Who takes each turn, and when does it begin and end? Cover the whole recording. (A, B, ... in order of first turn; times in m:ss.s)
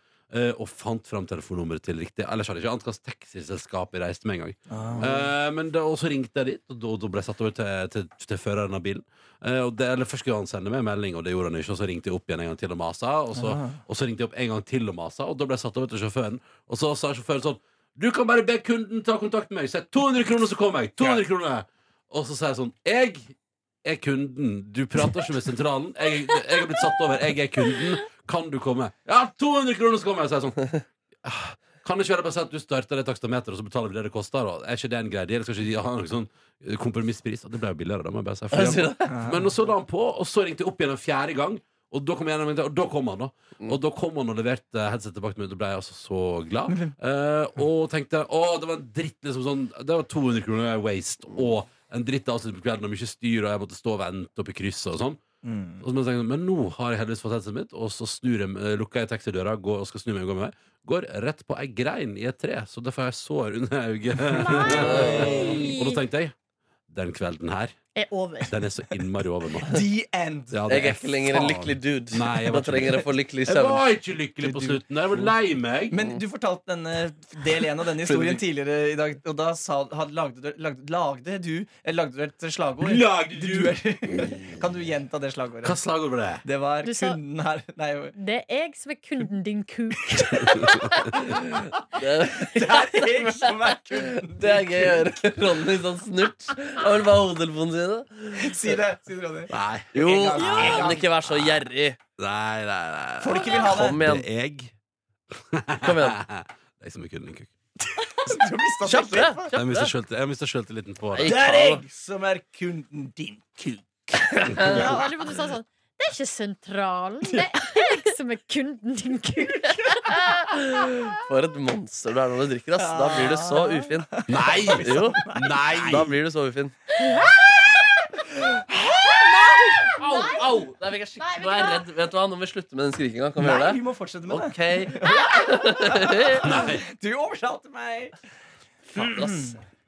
0:00.3-0:55.2 A
0:04.7-0:05.1 B
0:04.9-0:05.2 C
0:13.3-0:13.8 B
0:38.5-0:39.1 C
0:39.1-0:39.6 B
0:46.7-0:46.9 B
0:55.4-0:55.8 B
0:55.8-1:06.3 A
1:04.4-1:05.5 B
1:04.6-1:05.6 C
1:05.5-1:06.0 D
1:06.9-1:07.7 A
1:07.9-1:08.6 D
1:08.4-1:09.8 A
1:09.6-1:10.6 B
1:10.5-1:16.0 A
1:10.7-1:13.9 C
1:14.4-1:14.8 B
1:15.9-1:25.8 B
1:18.0-1:18.4 C
1:22.8-1:23.8 A
1:25.6-1:26.4 A
1:26.4-1:28.1 B
1:26.8-1:27.2 D
1:28.2-1:30.9 D
1:30.2-1:30.8 B
1:31.2-1:38.7 C
1:32.2-1:35.0 B
1:38.3-1:41.1 B
1:39.5-1:41.6 A
1:39.9-1:42.0 C
1:42.2-1:44.7 A
1:43.2-1:44.0 B
1:43.7-1:44.3 C
1:45.5-1:47.5 A
1:45.8-1:46.2 C
1:48.1-1:49.5 B
1:48.8-1:49.9 C
1:49.5-1:51.4 A
1:51.1-1:51.8 C
1:51.2-1:55.0 B
1:54.4-1:54.9 C
1:54.6-2:00.2 D
2:00.0-2:04.1 C
2:02.8-2:06.1 B
2:04.3-2:06.2 A
2:04.8-2:05.2 C
2:05.9-2:06.8 C
2:07.0-2:07.5 B
2:08.1-2:09.9 B
2:10.0-2:16.6 C
2:10.0-2:10.4 D
2:11.2-2:11.9 D
2:13.4-2:18.2 B
2:16.4-2:16.8 A
2:18.9-2:19.6 B
2:18.9-2:19.5 C